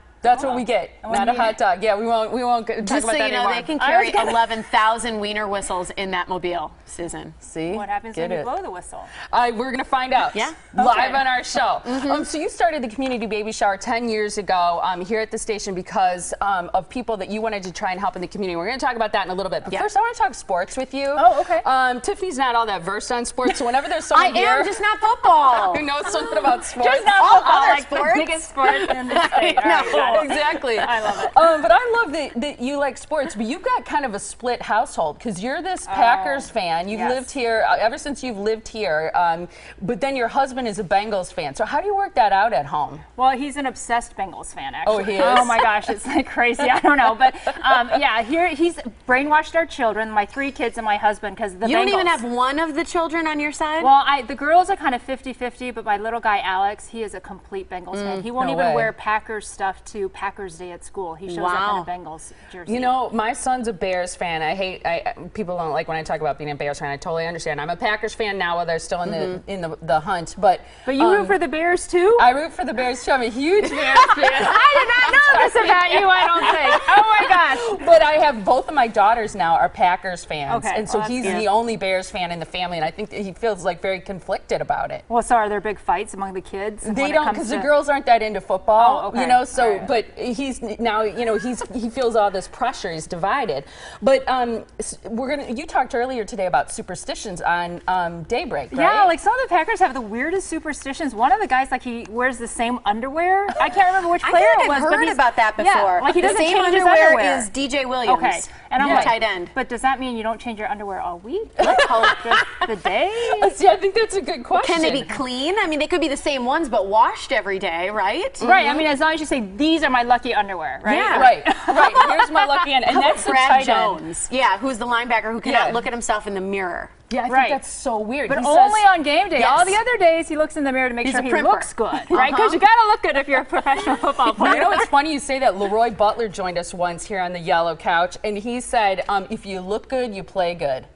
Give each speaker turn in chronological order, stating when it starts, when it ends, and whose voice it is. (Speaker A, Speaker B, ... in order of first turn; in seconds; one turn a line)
Speaker A: 0.2-4.2
Speaker B: 0.3-1.6
Speaker C: 2.8-7.4
Speaker B: 4.0-4.5
Speaker A: 7.4-8.5
Speaker B: 7.7-9.1
Speaker A: 9.3-24.8
Speaker C: 10.3-10.7
Speaker B: 10.7-11.3
Speaker C: 11.8-12.2
Speaker B: 21.1-21.6
Speaker C: 24.1-25.9
Speaker A: 25.6-27.2
Speaker B: 26.1-31.4
Speaker C: 27.1-30.8
Speaker A: 29.6-43.0
Speaker B: 35.9-37.3
Speaker B: 43.1-52.2
Speaker A: 44.8-45.7
Speaker C: 51.6-53.9
Speaker B: 53.8-63.0
Speaker C: 57.9-58.3
Speaker A: 58.3-58.9
Speaker C: 61.3-61.9
Speaker A: 62.7-71.4
Speaker C: 69.0-69.4
Speaker B: 70.8-72.3
Speaker A: 72.2-85.0
Speaker C: 73.8-74.3
Speaker B: 74.2-77.8
Speaker B: 80.5-81.4
Speaker C: 81.2-81.5
Speaker B: 85.1-87.7
Speaker A: 86.8-99.2
Speaker B: 88.8-89.9
Speaker B: 98.7-107.5
Speaker C: 104.2-109.5
Speaker B: 108.0-113.5
Speaker A: 108.8-109.2
Speaker C: 111.6-112.2
Speaker A: 111.6-112.6
Speaker A: 113.3-115.2
Speaker C: 114.6-118.8
Speaker B: 118.4-122.3
Speaker A: 118.4-118.8
Speaker C: 120.8-126.9
Speaker A: 121.1-124.0
Speaker A: 125.4-125.8
Speaker A: 127.1-129.8
Speaker B: 127.3-127.6
Speaker B: 128.3-134.9
Speaker C: 131.0-132.6
Speaker A: 134.2-140.9